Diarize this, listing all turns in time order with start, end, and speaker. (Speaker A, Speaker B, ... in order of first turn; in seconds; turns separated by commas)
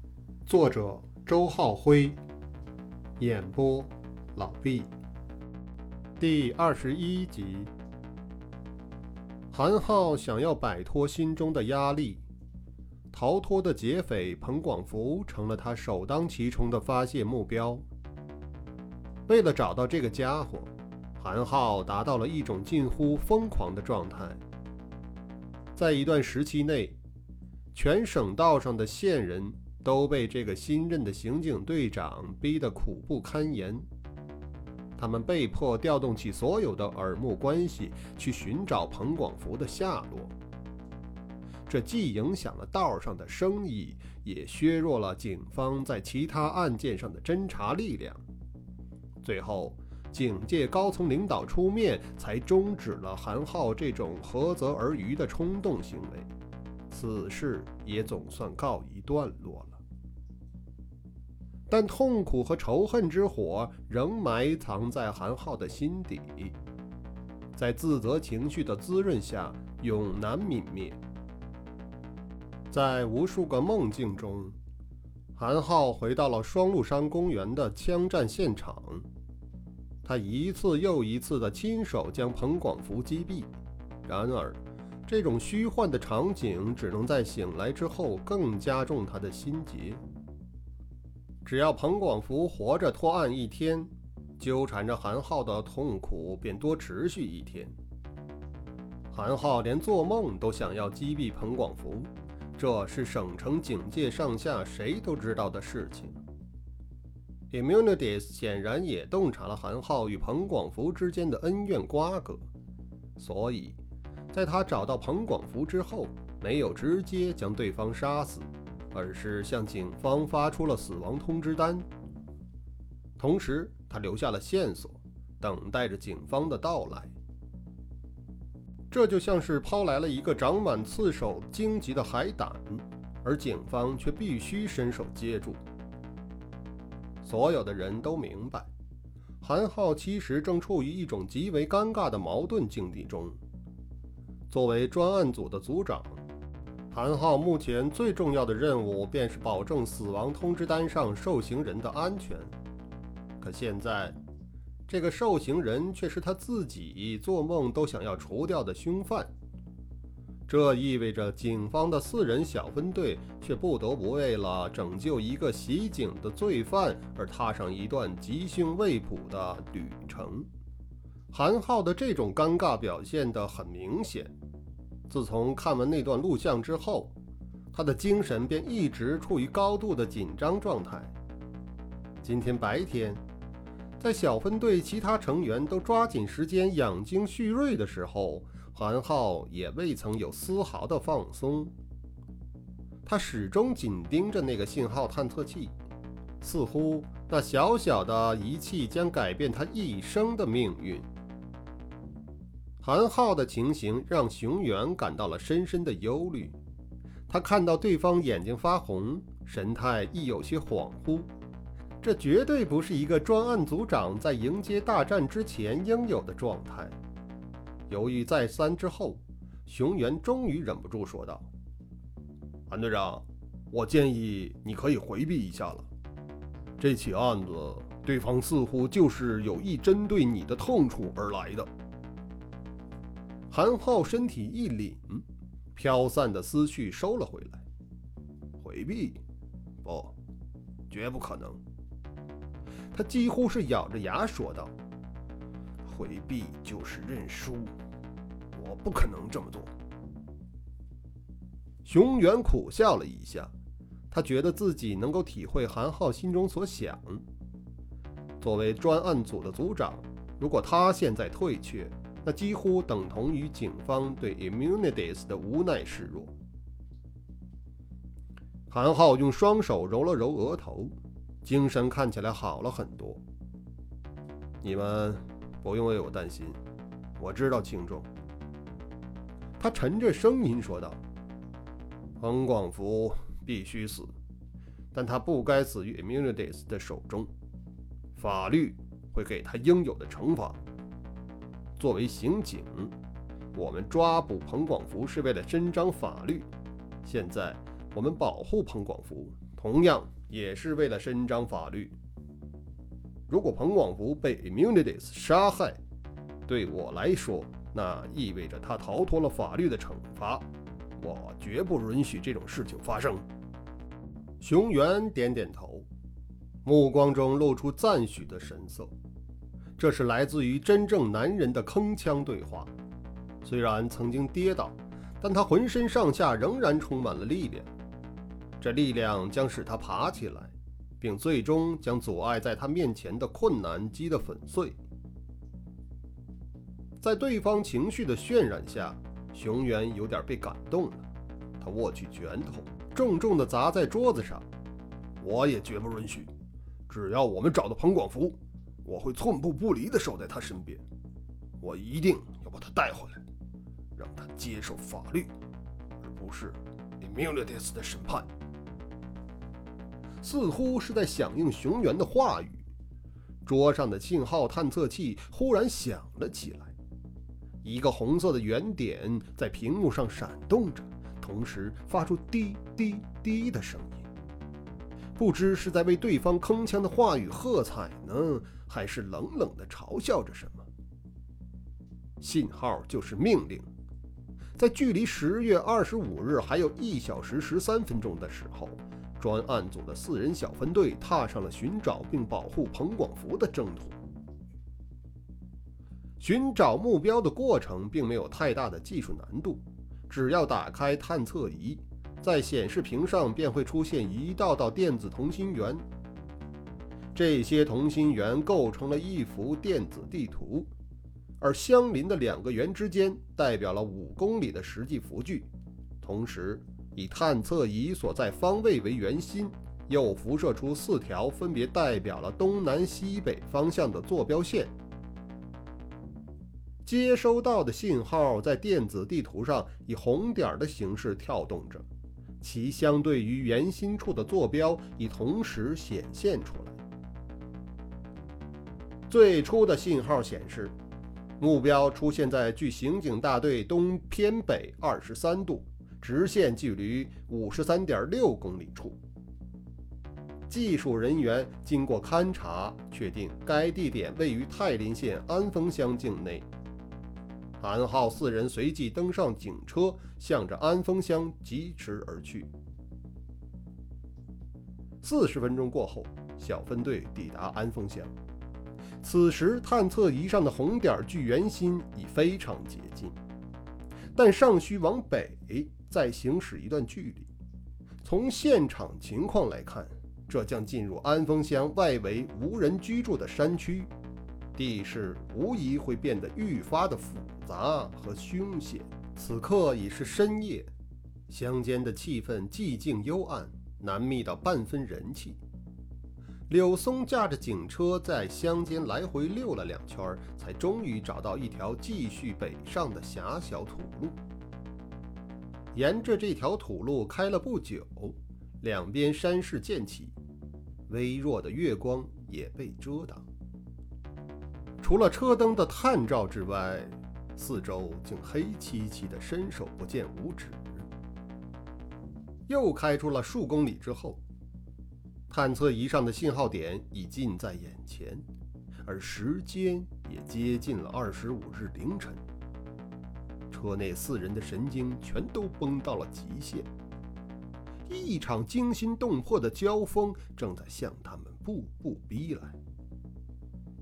Speaker A: 0.5-2.2, Speaker A: 3.2-4.9, Speaker A: 6.2-7.7, Speaker A: 9.5-12.2, Speaker A: 13.1-17.8, Speaker A: 19.3-24.4, Speaker A: 25.8-26.9, Speaker A: 27.7-33.8, Speaker A: 35.0-40.3, Speaker A: 41.7-48.2, Speaker A: 49.2-56.3, Speaker A: 56.9-59.8, Speaker A: 61.7-66.5, Speaker A: 67.5-71.0, Speaker A: 72.7-74.5, Speaker A: 75.3-79.0, Speaker A: 80.0-83.5, Speaker A: 84.0-90.0, Speaker A: 91.4-97.7, Speaker A: 99.1-106.2, Speaker A: 107.5-112.4, Speaker A: 113.2-113.8, Speaker A: 114.3-121.8, Speaker A: 123.2-127.1, Speaker A: 128.9-135.6, Speaker A: 137.2-138.7, Speaker A: 139.4-143.4, Speaker A: 144.5-146.2, Speaker A: 146.9-152.5, Speaker A: 153.4-154.2, Speaker A: 154.9-159.3, Speaker A: 160.5-170.5, Speaker A: 171.3-174.3, Speaker A: 175.1-177.1, Speaker A: 177.7-181.1, Speaker A: 182.2-183.2, Speaker A: 184.0-191.7, Speaker A: 193.0-195.7, Speaker A: 196.4-201.1, Speaker A: 202.8-206.6, Speaker A: 207.3-211.3, Speaker A: 212.0-216.9, Speaker A: 217.9-221.5, Speaker A: 222.7-225.9, Speaker A: 226.8-231.7, Speaker A: 233.5-235.2, Speaker A: 235.7-237.6, Speaker A: 238.6-239.2, Speaker A: 239.8-240.2, Speaker A: 240.9-241.6, Speaker A: 242.9-244.7, Speaker A: 245.8-247.7, Speaker A: 248.5-249.7, Speaker A: 251.8-253.5, Speaker A: 254.1-257.2, Speaker A: 258.4-266.3, Speaker A: 268.7-273.2, Speaker A: 274.6-276.6, Speaker A: 277.2-278.1, Speaker A: 279.6-281.0, Speaker A: 282.2-284.1, Speaker A: 284.9-287.3, Speaker A: 288.1-290.6, Speaker A: 291.8-292.9, Speaker A: 293.5-296.5, Speaker A: 297.0-301.9, Speaker A: 303.3-305.8, Speaker A: 306.5-310.4, Speaker A: 311.0-313.2, Speaker A: 314.4-315.9, Speaker A: 316.6-318.9, Speaker A: 319.8-322.7, Speaker A: 323.4-327.7, Speaker A: 328.6-334.8, Speaker A: 337.0-341.1, Speaker A: 341.6-344.4, Speaker A: 345.2-346.3, Speaker A: 346.9-350.8, Speaker A: 351.6-353.2, Speaker A: 353.9-355.3, Speaker A: 356.0-358.3, Speaker A: 360.2-362.6, Speaker A: 363.4-366.7, Speaker A: 367.6-374.1, Speaker A: 375.1-380.7, Speaker A: 382.2-383.7, Speaker A: 384.6-394.0, Speaker A: 396.2-405.8, Speaker A: 407.1-410.7, Speaker A: 411.4-415.5, Speaker A: 416.0-424.7, Speaker A: 426.8-431.9, Speaker A: 432.4-436.8, Speaker A: 439.1-440.7, Speaker A: 441.4-449.0, Speaker A: 450.5-456.4, Speaker A: 457.6-462.5, Speaker A: 465.0-468.1, Speaker A: 469.0-473.1, Speaker A: 474.1-477.3, Speaker A: 478.0-483.9, Speaker A: 484.5-490.7, Speaker A: 491.3-495.4, Speaker A: 496.5-504.2, Speaker A: 505.7-510.1, Speaker A: 510.9-513.2, Speaker A: 514.8-520.9, Speaker A: 522.5-524.2, Speaker A: 525.3-528.2, Speaker A: 528.8-532.2, Speaker A: 533.5-536.7, Speaker A: 537.9-542.6